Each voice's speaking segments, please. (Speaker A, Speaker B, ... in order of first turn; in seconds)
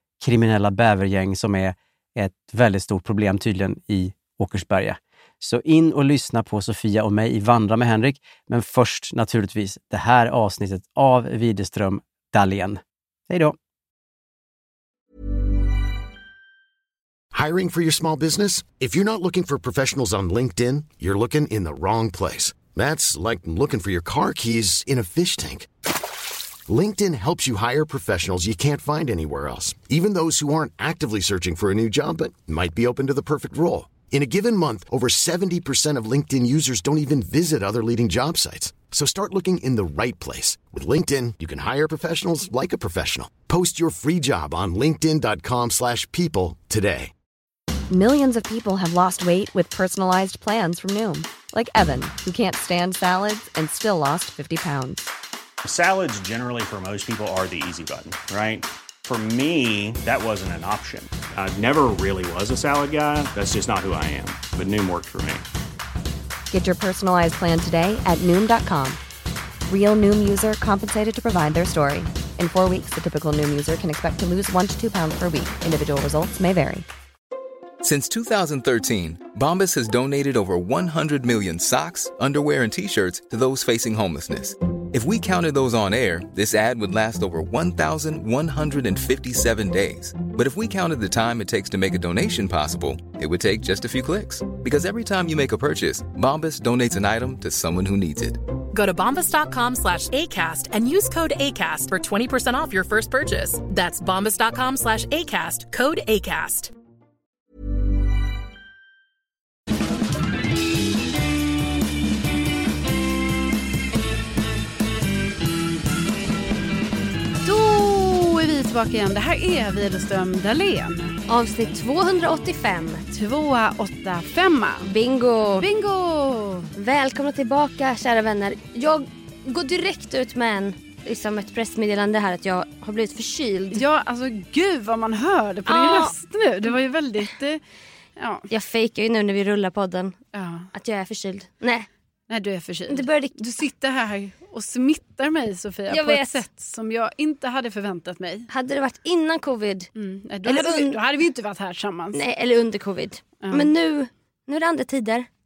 Speaker A: 0.2-13.6
Speaker B: 17.3-25.7, 26.7-47.1
Speaker C: 47.9-55.1, 66.5-69.0, 69.7-76.9
Speaker D: 55.6-65.5
Speaker E: 77.8-98.4
Speaker F: 98.7-106.7
Speaker G: 117.4-121.2, 123.1-124.9, 125.6-126.7, 133.7-137.6, 138.2-138.5, 140.3-140.7, 142.3-148.5, 150.0-152.2, 153.4-153.7
Speaker H: 121.3-123.0, 124.8-125.7, 126.8-133.8, 135.7-136.1, 138.5-140.2, 140.7-141.9, 142.9-143.4, 145.9-146.4, 148.5-149.9, 150.4-151.0, 152.1-155.3